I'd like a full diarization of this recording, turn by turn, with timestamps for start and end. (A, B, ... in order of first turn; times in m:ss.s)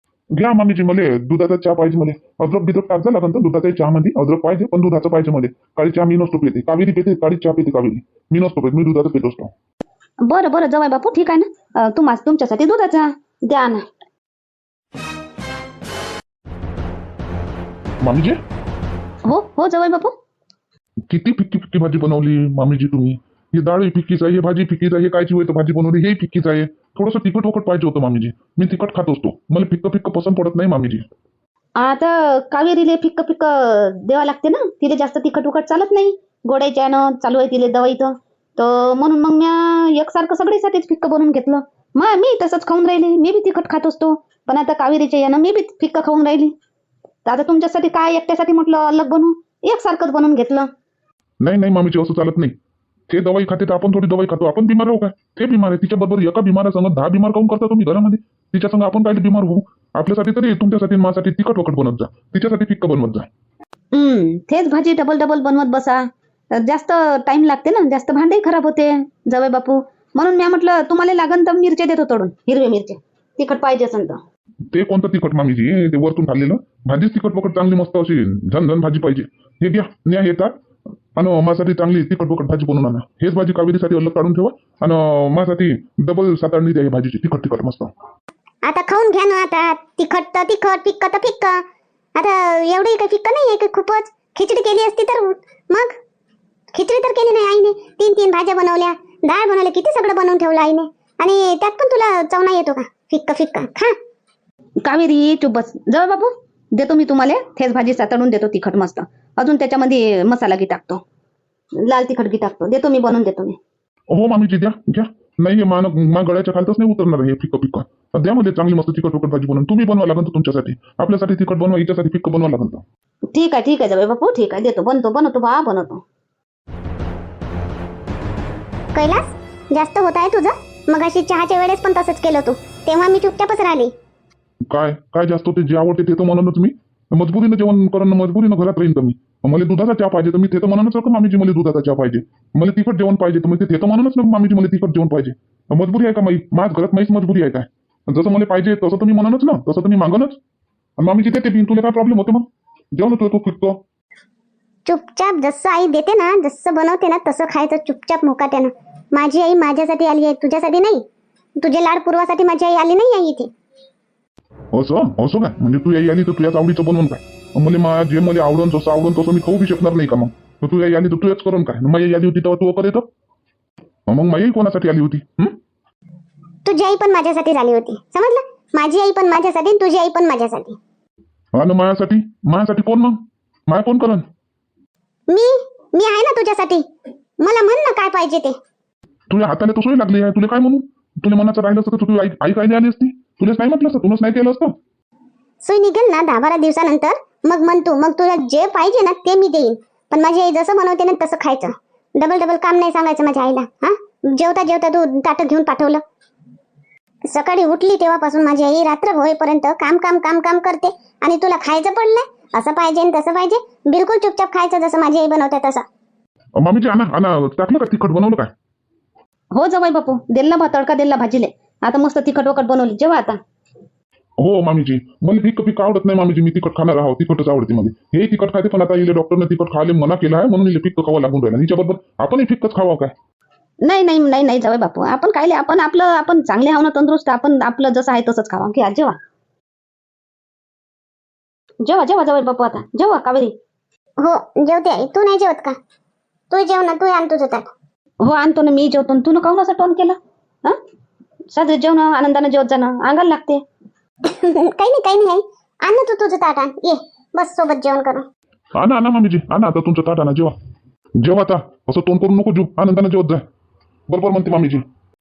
0:00.3-0:09.5 A
0:10.2-0:13.9 B
0:18.0-0:18.4 A
0:19.2-0:20.1 B
0:21.1-0:31.0 A
0:31.8-0:46.5 B
0:47.2-0:50.7 B
0:51.4-0:52.5 A
0:53.1-1:03.3 A
1:03.9-1:14.2 B
1:14.7-1:20.5 A
1:21.1-1:27.9 A
1:28.6-1:31.6 C
1:32.2-1:35.9 C
1:36.7-1:44.0 C
1:44.8-1:51.0 B
1:51.8-1:53.6 B
1:54.1-2:02.8 A
2:03.3-2:06.0 B
2:08.9-2:13.9 C
2:14.7-2:30.4 A
2:31.0-2:33.8 A
2:34.8-2:41.0 C
2:41.6-2:43.5 C
2:44.7-2:53.1 A
2:54.1-2:55.6 A
2:56.6-3:00.8 C
3:01.5-3:04.2 A
3:05.3-3:06.8 C
3:07.4-3:08.6 C
3:09.3-3:14.7 A
3:15.6-3:26.0 C
3:27.2-3:35.8 C
3:36.6-3:38.5 A
3:39.5-3:43.4 B
3:44.4-3:53.1 A
3:53.8-3:59.2 B
4:01.8-4:03.5 B
4:04.2-4:05.7 C
4:06.5-4:07.7 C
4:08.2-4:10.8 B
4:11.5-4:13.6 B
4:14.2-4:18.2 C
4:18.7-4:20.5 A
4:21.2-4:23.4 A
4:24.1-4:24.8 A